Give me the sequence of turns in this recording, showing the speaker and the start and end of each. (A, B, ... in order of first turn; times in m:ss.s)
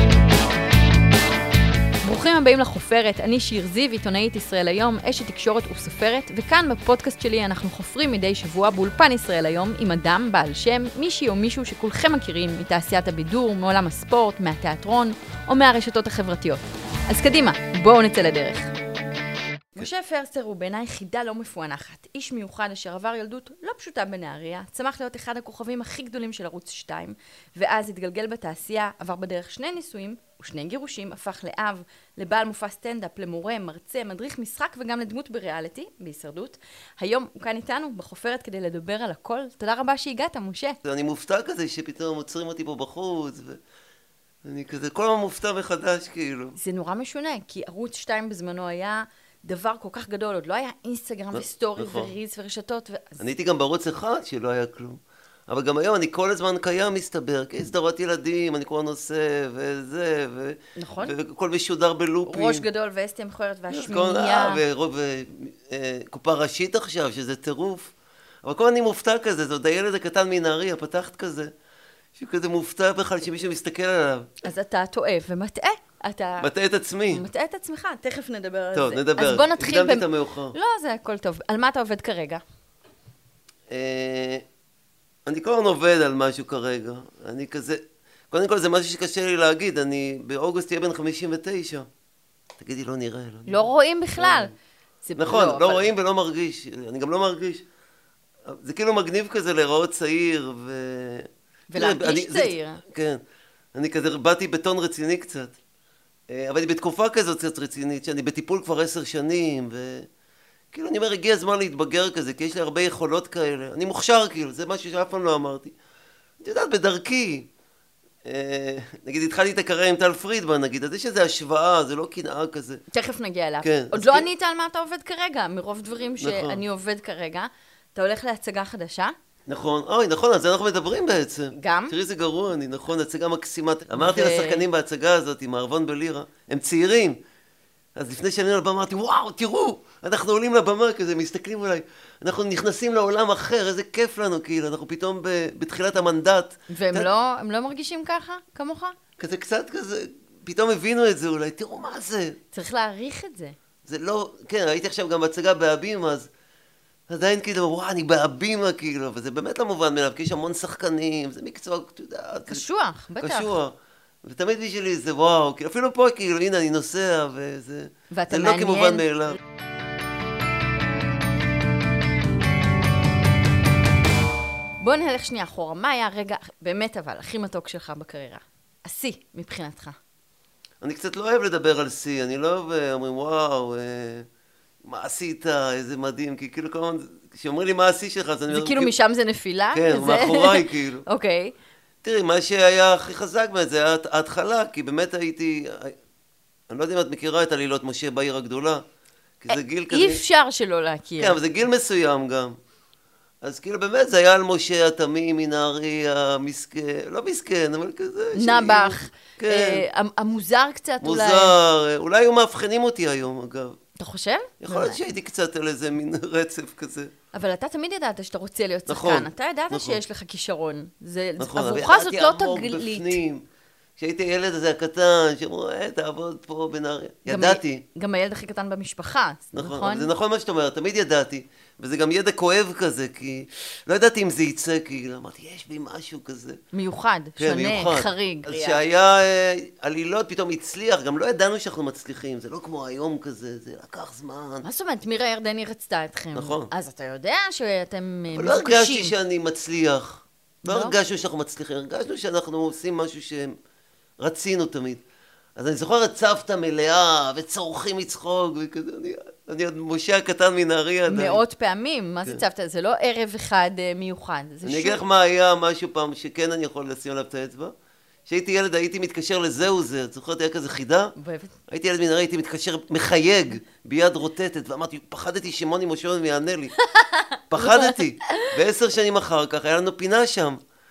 0:02.0-0:18.7 A
0:19.8-0:40.8 A
0:40.8-0:43.6 B
0:44.4-0:46.6 B
0:46.6-0:53.2 A
0:51.3-0:52.1 B
0:53.2-1:02.7 B
1:00.8-1:01.2 A
1:02.3-1:04.6 A
1:03.7-1:07.9 B
1:08.4-1:11.5 B
1:12.2-1:14.4 B
1:14.4-1:16.5 A
1:16.4-1:17.3 B
1:17.1-1:22.4 A
1:18.7-1:20.6 B
1:23.7-1:24.4 B
1:25.3-1:31.9 B
1:32.6-1:34.5 B
1:33.5-1:34.5 A
1:35.0-1:35.9 A
1:35.2-1:37.7 B
1:38.5-1:43.2 B
1:41.7-1:42.8 A
1:43.8-1:45.6 B
1:46.3-1:50.1 B
1:50.7-1:55.8 B
1:56.4-1:57.5 B
1:58.2-2:02.8 B
2:02.9-2:09.2 A
2:03.6-2:04.3 B
2:06.2-2:06.6 B
2:09.5-2:17.2 B
2:11.5-2:12.0 A
2:14.0-2:14.7 A
2:18.0-2:27.1 B
2:26.7-2:29.0 A
2:29.2-2:32.4 B
2:32.5-2:33.6 A
2:33.8-2:36.3 B
2:37.1-2:42.6 B
2:42.5-2:43.5 A
2:43.2-2:49.4 B
2:48.1-2:49.1 A
2:54.8-3:00.0 A
3:00.8-3:04.3 B
3:04.8-3:08.9 B
3:08.5-3:11.5 A
3:09.7-3:11.0 B
3:12.0-3:16.0 B
3:16.7-3:18.8 B
3:19.4-3:20.2 B
3:19.5-3:21.4 A
3:21.2-3:22.6 B
3:23.4-3:29.8 B
3:28.3-3:31.6 A
3:31.0-3:33.8 B
3:34.0-3:35.0 A
3:34.6-3:37.1 B
3:37.3-3:43.2 A
3:38.9-3:40.0 B
3:41.4-3:43.4 B
3:44.0-3:47.8 B
3:47.3-3:50.1 A
3:49.5-3:56.6 B
3:56.7-3:58.8 A
3:57.4-4:04.6 B
4:04.6-4:09.1 A
4:06.3-4:06.7 B
4:08.3-4:13.6 B
4:10.6-4:11.0 A
4:14.2-4:15.0 B
4:15.6-4:21.4 B
4:21.1-4:25.0 A
4:24.6-4:27.7 B
4:28.3-4:31.1 B
4:31.2-4:31.6 A
4:31.7-4:36.8 B
4:36.8-4:38.5 A
4:37.5-4:40.6 B